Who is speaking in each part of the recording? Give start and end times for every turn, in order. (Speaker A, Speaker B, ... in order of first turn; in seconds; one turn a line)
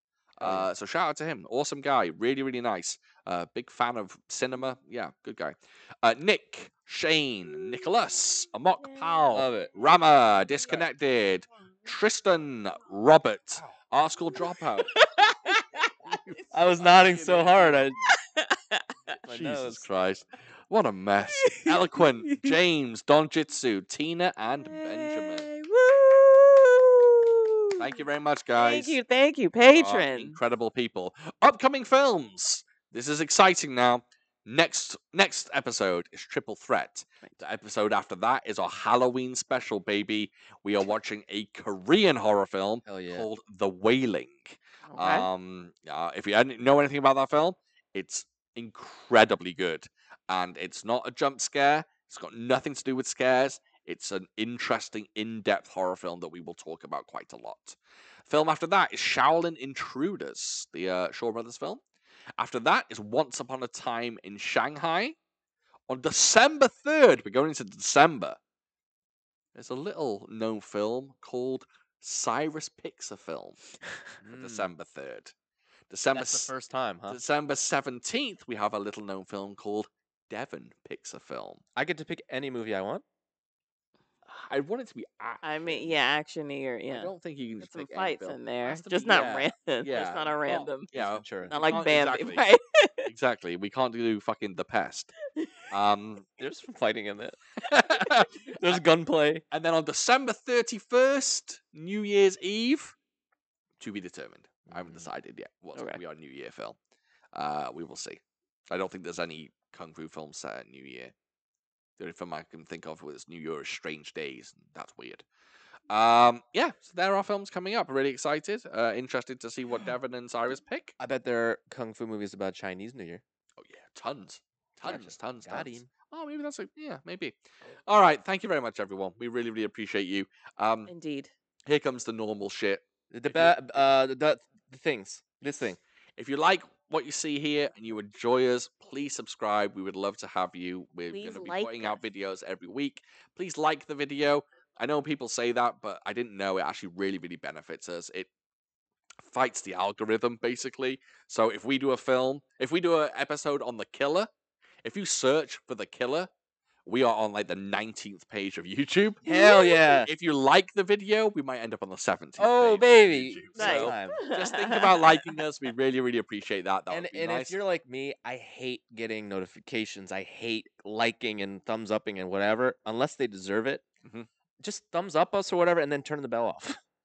Speaker A: 0.4-14.9
Speaker B: 0.4-0.7
Speaker C: 8.8-9.4
Speaker B: 9.3-9.7
Speaker C: 14.8-16.4
Speaker A: 16.0-17.8
Speaker B: 16.5-18.0
Speaker C: 18.0-19.2
Speaker A: 19.2-25.5
Speaker B: 19.2-19.8
Speaker C: 21.2-22.6
Speaker C: 24.6-28.0
Speaker A: 27.8-29.0
Speaker C: 28.6-30.4
Speaker A: 29.7-61.8
Speaker B: 42.8-43.2
Speaker C: 44.9-45.3
Speaker A: 62.4-65.2
Speaker A: 65.9-68.4
Speaker A: 69.5-73.6
Speaker A: 74.2-75.3
Speaker B: 74.2-74.7
Speaker A: 75.9-76.5
Speaker B: 76.1-77.2
Speaker A: 77.1-81.6
Speaker B: 81.8-83.0
Speaker A: 84.2-86.0
Speaker C: 85.4-90.9
Speaker A: 86.9-92.4
Speaker B: 89.0-89.5
Speaker B: 90.9-91.8
Speaker C: 91.5-93.1
Speaker A: 93.0-95.1
Speaker C: 95.3-95.6
Speaker A: 95.7-96.2
Speaker B: 96.4-97.4
Speaker A: 97.6-98.8
Speaker B: 98.5-99.4
Speaker A: 99.5-103.0
Speaker A: 103.8-106.8
Speaker A: 107.3-111.1
Speaker A: 112.0-115.2
Speaker A: 115.9-120.9
Speaker B: 121.0-123.2
Speaker A: 123.6-130.9
Speaker B: 124.8-125.9
Speaker C: 130.9-131.3
Speaker A: 131.7-133.8
Speaker B: 133.1-135.8
Speaker A: 136.2-148.3
Speaker C: 141.1-142.0
Speaker A: 149.2-154.3
Speaker A: 154.8-156.3
Speaker A: 156.8-167.6
Speaker B: 159.2-160.1
Speaker C: 159.3-159.9
Speaker B: 162.4-164.2
Speaker C: 163.6-165.3
Speaker B: 166.9-173.8
Speaker B: 174.6-176.8